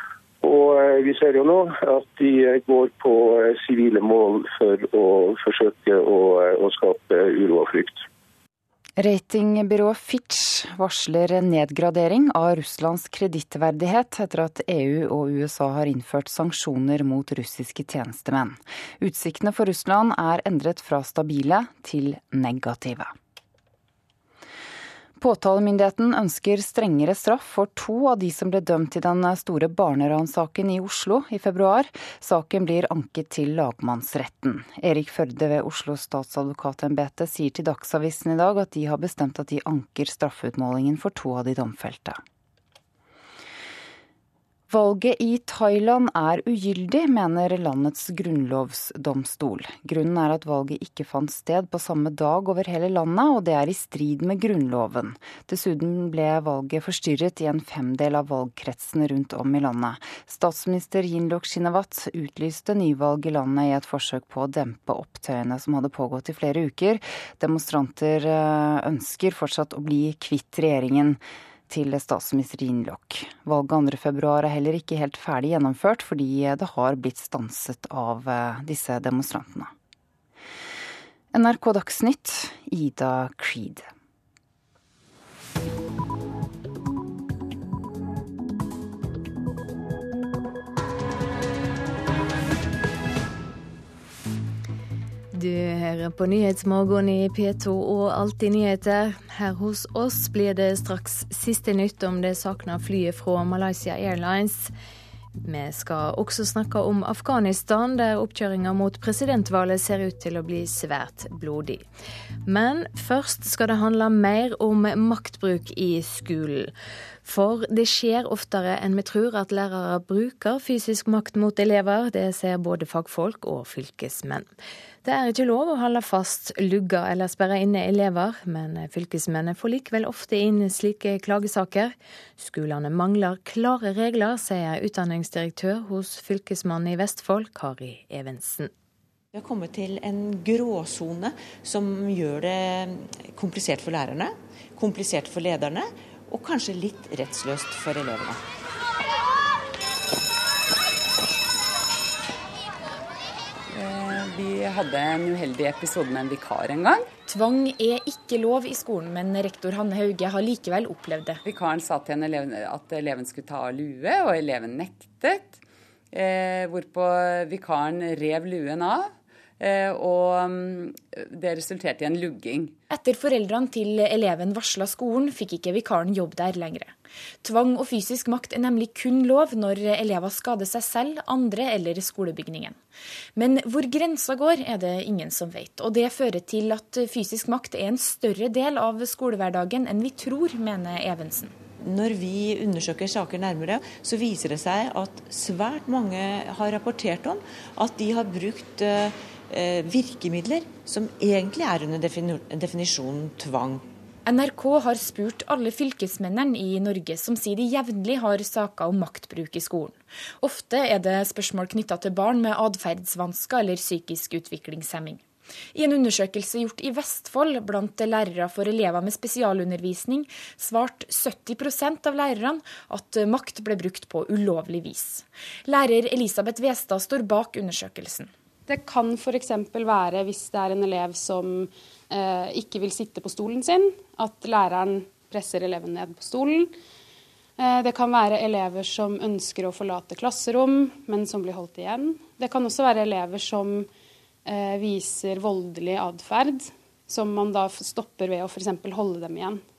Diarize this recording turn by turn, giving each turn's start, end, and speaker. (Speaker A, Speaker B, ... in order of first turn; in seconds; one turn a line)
Speaker A: 0.4-8.0
Speaker B: 9.0-23.1
Speaker B: 25.2-42.2
Speaker B: 44.7-79.7
Speaker B: 81.3-83.8
Speaker C: 95.3-104.7
Speaker C: 105.4-111.8
Speaker C: 112.5-116.7
Speaker C: 117.2-124.5
Speaker C: 125.0-138.7
Speaker D: 139.3-148.4
Speaker E: 153.7-157.1
Speaker F: 157.3-161.4
Speaker E: 161.4-165.6
Speaker E: 166.1-172.8
Speaker F: 172.9-182.8
Speaker F: 183.3-191.5
Speaker D: 191.8-203.8
Speaker F: 204.2-228.3
Speaker G: 228.7-236.7
Speaker G: 237.6-243.8
Speaker G: 244.5-249.6